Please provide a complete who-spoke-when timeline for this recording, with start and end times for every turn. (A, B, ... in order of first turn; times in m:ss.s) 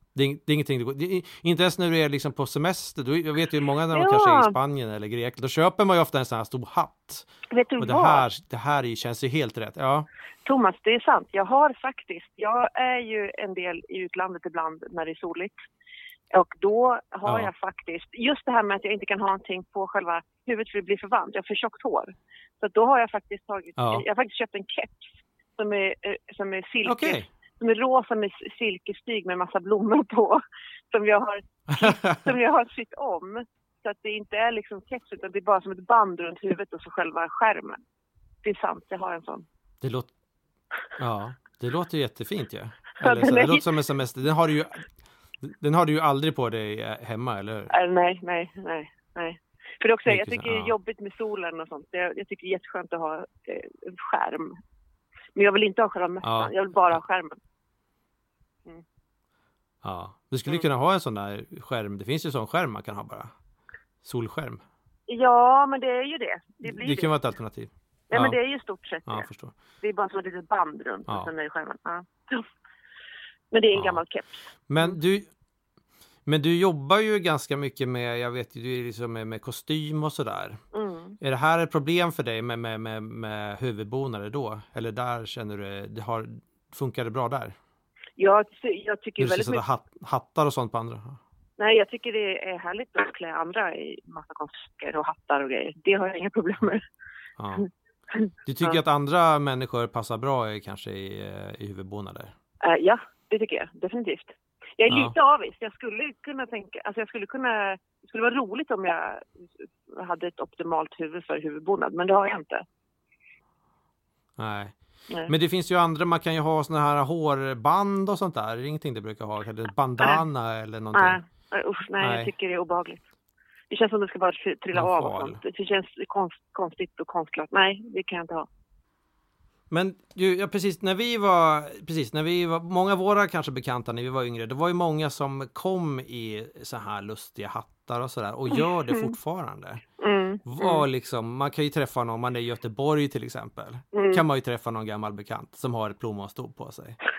0:00.1-0:10.1 A
0:03.9-0:04.6 B
0:07.5-0:08.2 B
0:10.4-0:15.6 B
0:16.3-0:37.8 B
0:17.2-0:17.5 A
0:23.8-0:24.0 A
0:26.8-0:27.3 A
0:31.7-0:32.3 A
0:38.4-0:39.4 B
0:39.8-0:40.1 A
0:41.0-0:44.8 A
0:43.0-0:43.6 B
0:45.4-0:47.7 A
0:47.7-0:54.6 B
0:50.0-0:50.7 A
0:55.4-0:57.4 B
0:56.2-0:57.0 A
0:59.8-1:03.3 A
1:04.0-1:04.6 A
1:05.1-1:07.1 B
1:06.6-1:08.4 A
1:08.1-1:09.3 B
1:09.0-1:09.5 A
1:09.8-1:12.4 B
1:13.5-1:15.0 B
1:13.7-1:14.0 A
1:14.7-1:15.3 A
1:16.2-1:20.6 A
1:20.7-1:21.2 B
1:21.2-1:27.5 A
1:28.2-1:29.6 B
1:29.2-1:31.2 A
1:31.6-1:36.8 B
1:37.4-1:37.6 A
1:37.6-1:38.8 B
1:38.4-1:42.3 A
1:42.6-1:52.6 B
1:44.9-1:45.1 A
1:54.4-1:54.7 A
1:55.2-2:01.2 A
2:00.9-2:03.0 B
2:02.0-2:02.3 A
2:03.7-2:08.5 B
2:04.7-2:05.4 A
2:09.7-2:19.8 A
2:18.5-2:19.1 B
2:20.0-2:20.8 B
2:20.4-2:27.0 A
2:23.9-2:24.2 B